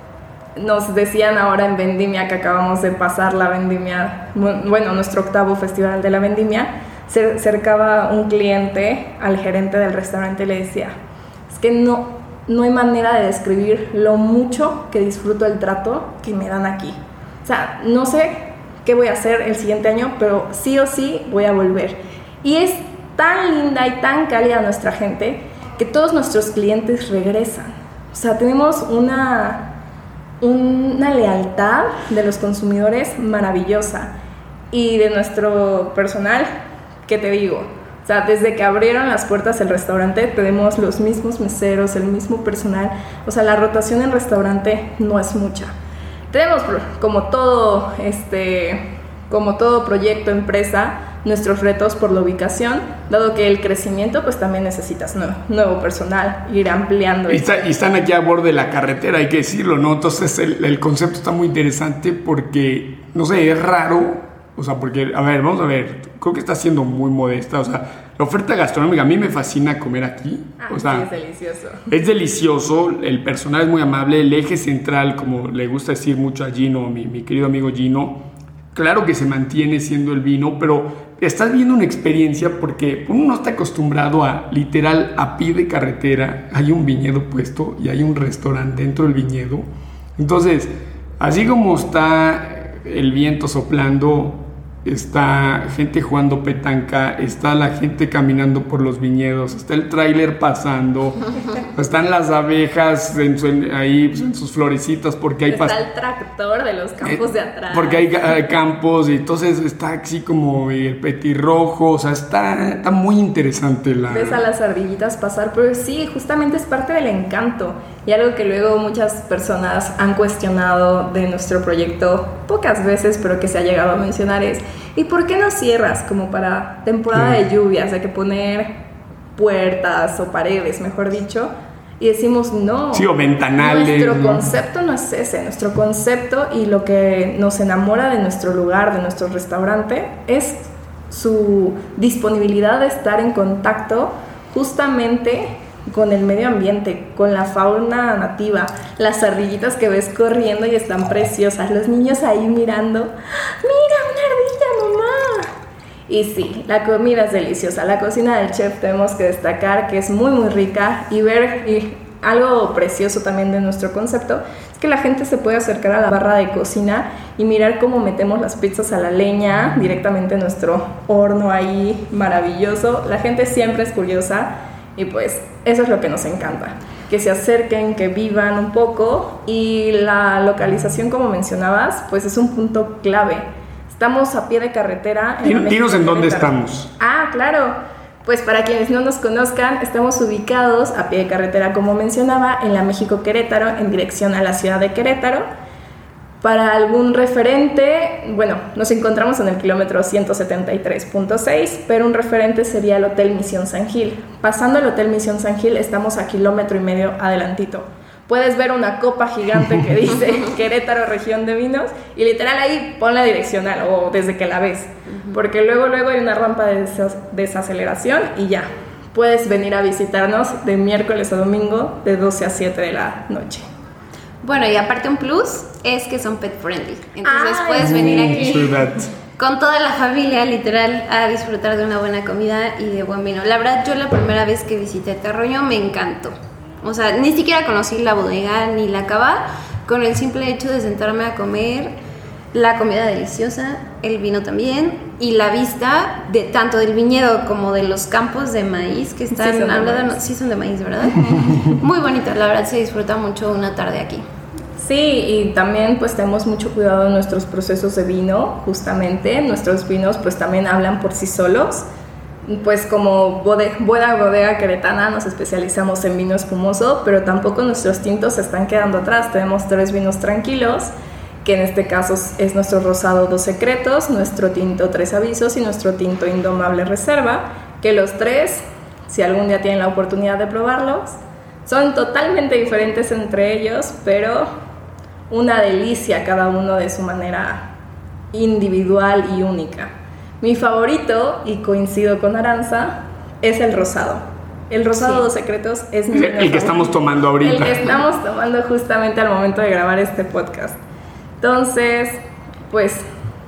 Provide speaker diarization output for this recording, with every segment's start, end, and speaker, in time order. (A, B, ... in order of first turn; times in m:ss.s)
0:00.6-0:11.0 A
0:11.5-0:29.8 A
0:30.4-0:34.1 A
0:34.7-0:36.5 A
0:37.0-0:45.7 A
0:46.3-0:57.6 A
0:57.3-1:11.1 B
1:10.6-1:11.9 A
1:11.9-1:29.6 B
1:30.2-1:45.8 B
1:45.5-1:48.1 A
1:47.0-1:54.4 B
1:54.1-2:08.7 A
2:07.1-2:07.4 B
2:09.4-2:35.5 A
2:12.9-2:14.5 B
2:36.1-3:15.5 A
3:05.4-3:06.9 B
3:16.4-3:43.6 A
3:44.4-3:48.7 C
3:47.2-3:48.8 A
3:47.8-3:49.1 B
3:49.4-4:01.9 C
4:02.5-4:14.2 C
4:09.3-4:10.2 A
4:14.8-4:21.8 A
4:22.4-4:30.9 A
4:31.4-4:44.5 A
4:45.3-4:47.7 A
4:48.3-5:00.8 A
4:56.1-4:57.9 B
5:01.4-5:03.0 A